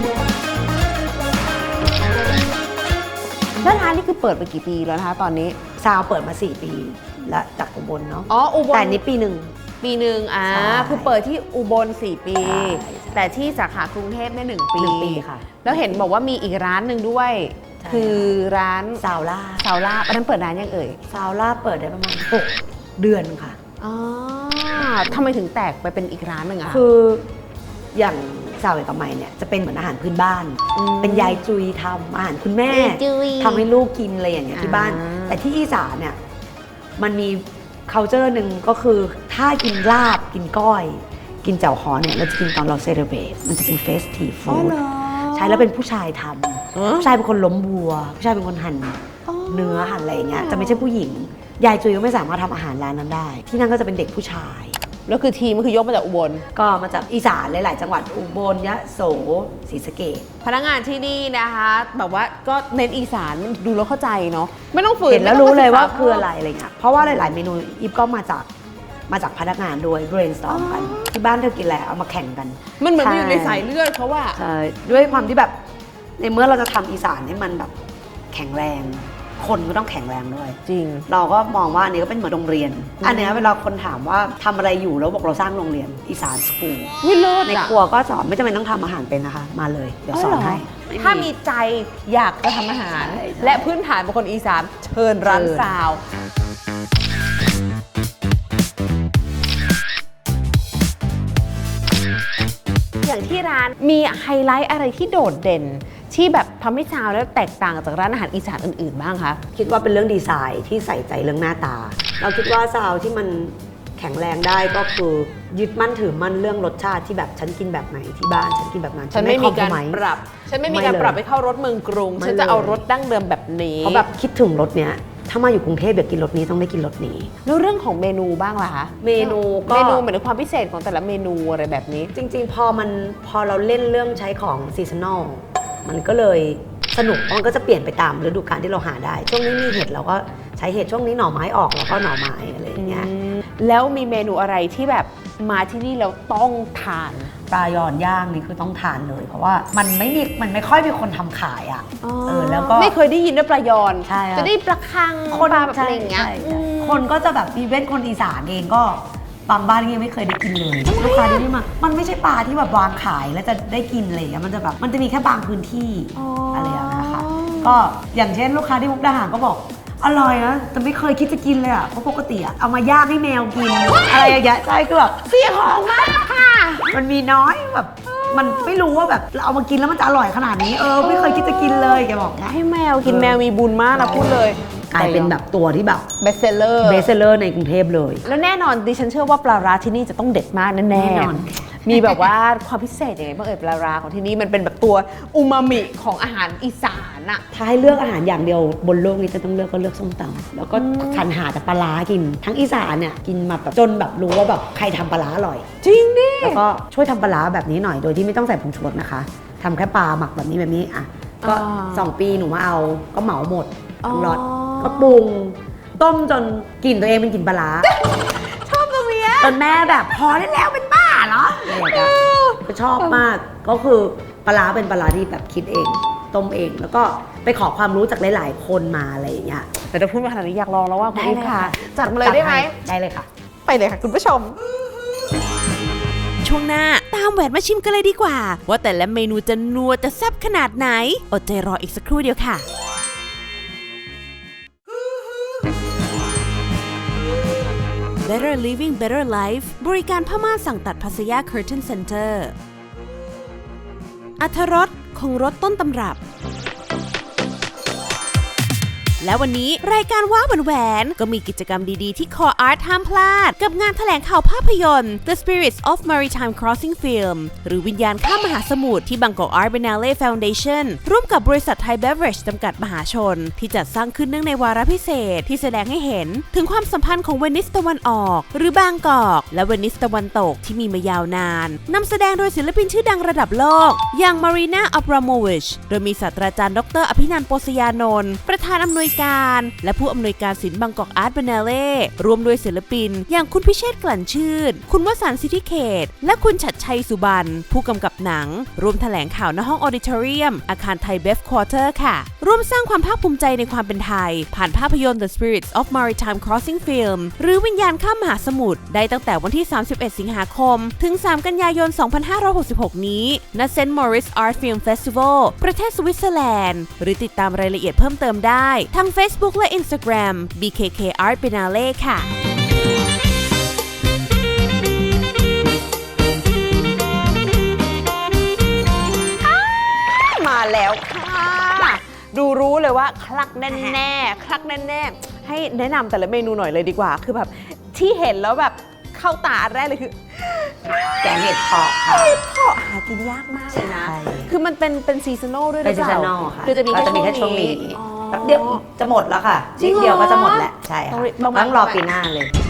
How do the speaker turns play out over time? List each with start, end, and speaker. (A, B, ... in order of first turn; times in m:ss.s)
0:03.6-0:05.6 A
0:05.8-0:09.5 B
0:08.3-0:09.0 A
0:09.8-0:19.0 A
0:10.5-0:11.1 B
0:12.4-0:13.4 B
0:14.8-0:16.1 B
0:17.8-0:18.4 B
0:19.0-0:19.7 B
0:19.6-0:21.0 A
0:21.1-0:23.6 B
0:23.8-0:26.8 A
0:26.7-0:27.2 B
0:27.9-0:36.2 B
0:30.8-0:31.4 A
0:32.7-0:33.7 A
0:34.5-0:35.4 A
0:37.0-0:44.8 B
0:44.5-0:45.6 A
0:45.3-0:54.8 B
0:46.8-0:47.2 A
0:49.3-0:50.9 A
0:55.1-0:56.4 A
0:56.5-1:00.3 B
1:00.4-1:06.3 A
1:05.1-1:08.5 B
1:09.1-1:13.7 B
1:10.5-1:11.1 A
1:12.8-1:15.3 A
1:14.4-1:15.6 B
1:16.2-1:17.7 B
1:18.3-1:26.9 B
1:20.7-1:21.1 A
1:23.0-1:23.4 A
1:27.0-1:27.8 A
1:27.5-1:31.3 B
1:30.1-1:36.0 A
1:32.9-1:33.7 B
1:35.2-1:35.8 B
1:43.0-1:49.4 A
1:49.6-2:00.0 B
1:59.1-2:04.1 A
2:00.6-2:01.2 B
2:02.2-2:02.8 B
2:03.8-2:07.3 B
2:07.4-2:12.1 A
2:09.0-2:10.1 B
2:12.1-2:23.1 B
2:22.8-2:27.3 A
2:27.5-2:33.0 B
2:32.0-2:37.1 A
2:34.0-2:34.5 B
2:35.3-2:56.3 B
2:40.8-2:41.5 A
2:46.2-2:47.8 A
2:53.9-2:54.4 A
2:55.2-2:56.9 A
2:56.8-3:02.5 B
2:58.1-2:58.8 A
3:01.0-3:05.4 A
3:03.0-3:03.4 B
3:03.9-3:06.1 B
3:06.2-3:07.1 A
3:06.8-3:08.2 B
3:08.2-3:17.4 A
3:10.9-3:12.3 B
3:17.5-3:25.7 B
3:20.7-3:21.2 A
3:25.8-3:26.6 A
3:26.4-3:37.9 B
3:31.4-3:32.1 A
3:34.0-3:35.2 A
3:37.8-3:43.2 A
3:39.4-3:40.5 B
3:41.5-3:49.7 B
3:49.9-3:52.8 A
3:51.2-3:53.3 B
3:53.7-3:54.6 A
3:56.4-4:02.6 C
4:08.2-4:12.5 C
4:14.4-4:16.2 C
4:19.2-5:22.3 C
5:29.4-5:41.3 A
5:33.7-5:34.0 B
5:41.2-5:42.4 B
5:42.1-5:48.8 A
5:43.7-5:44.5 B
5:45.8-5:52.5 B
5:49.8-5:52.0 A